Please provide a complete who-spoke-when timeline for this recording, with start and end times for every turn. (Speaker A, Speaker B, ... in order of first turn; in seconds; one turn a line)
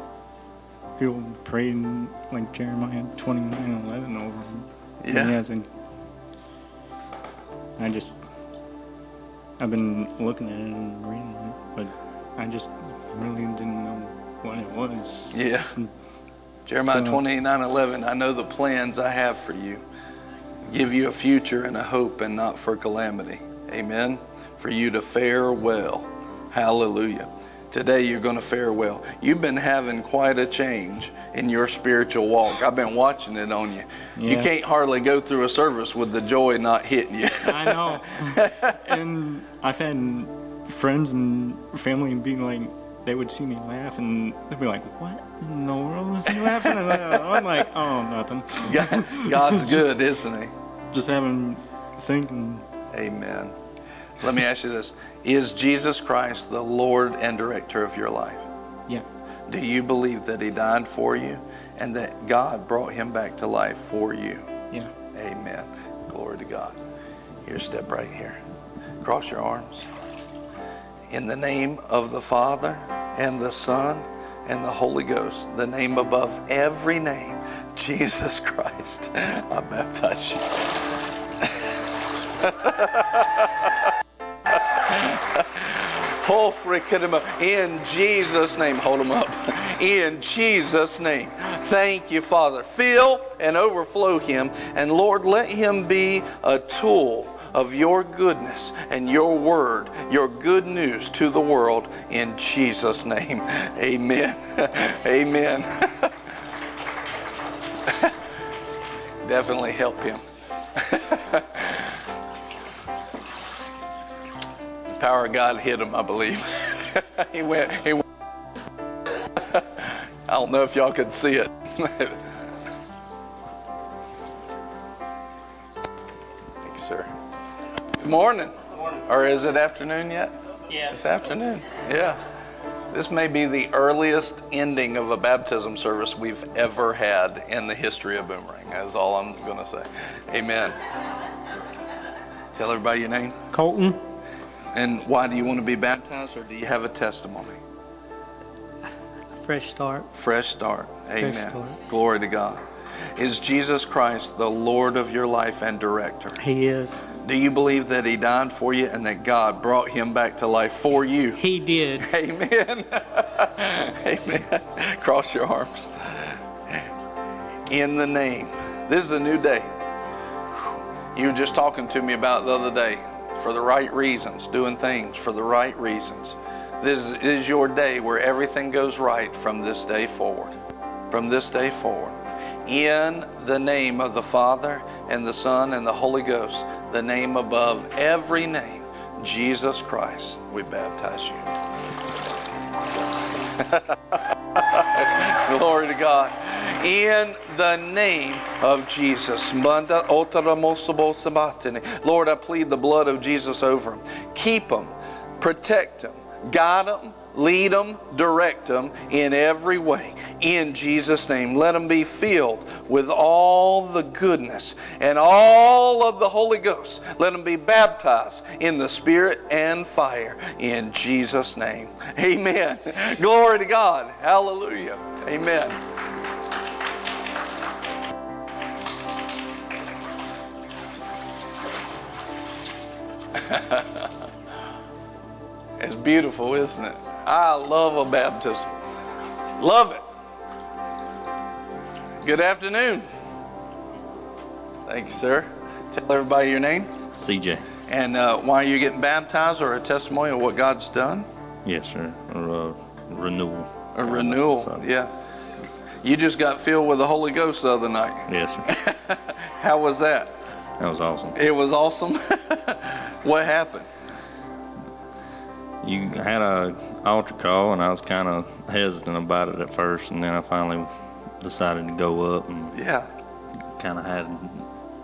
Speaker A: 1.0-5.7
Speaker B: 5.0-5.4
Speaker A: 7.8-8.2
Speaker A: 9.6-15.9
Speaker B: 15.3-15.7
Speaker B: 16.7-19.8
Speaker A: 16.8-17.2
Speaker B: 20.7-38.9
Speaker A: 34.2-34.5
Speaker A: 37.5-49.9
Speaker B: 46.3-47.4
Speaker B: 48.6-50.5
Speaker A: 50.9-52.6
Speaker B: 52.9-53.5
Speaker B: 54.2-58.4
Speaker B: 59.5-64.5
Speaker B: 65.1-66.8
Speaker B: 67.4-68.4
Speaker B: 69.0-69.9
Speaker B: 71.1-80.7
Speaker B: 81.4-81.7
Speaker B: 82.4-83.7
Speaker B: 84.5-106.1
Speaker B: 107.9-108.1
Speaker B: 109.2-110.2
Speaker B: 110.7-111.9
Speaker B: 114.9-118.0
Speaker B: 119.3-122.2
Speaker B: 126.6-127.1
Speaker B: 128.0-132.2
Speaker C: 130.7-130.9
Speaker B: 132.9-140.8
Speaker B: 142.5-143.4
Speaker C: 143.5-144.0
Speaker B: 144.7-147.6
Speaker C: 149.3-150.1
Speaker B: 150.1-152.6
Speaker C: 151.2-151.8
Speaker B: 153.2-156.4
Speaker C: 156.3-157.0
Speaker B: 157.2-161.4
Speaker C: 161.4-162.1
Speaker B: 162.0-166.8
Speaker B: 167.7-169.7
Speaker B: 171.1-180.6
Speaker B: 181.1-191.5
Speaker B: 193.6-225.8
Speaker B: 233.3-234.1
Speaker B: 235.8-238.7
Speaker B: 239.6-240.0
Speaker B: 242.2-243.1
Speaker B: 244.9-246.9
Speaker D: 247.1-247.7
Speaker B: 247.9-251.2
Speaker D: 251.6-254.9
Speaker B: 253.9-255.1
Speaker B: 256.0-260.3
Speaker D: 258.3-258.7
Speaker D: 260.8-261.4
Speaker B: 261.3-263.9
Speaker D: 265.8-270.9
Speaker D: 271.4-272.7
Speaker B: 272.7-273.1
Speaker D: 273.7-274.7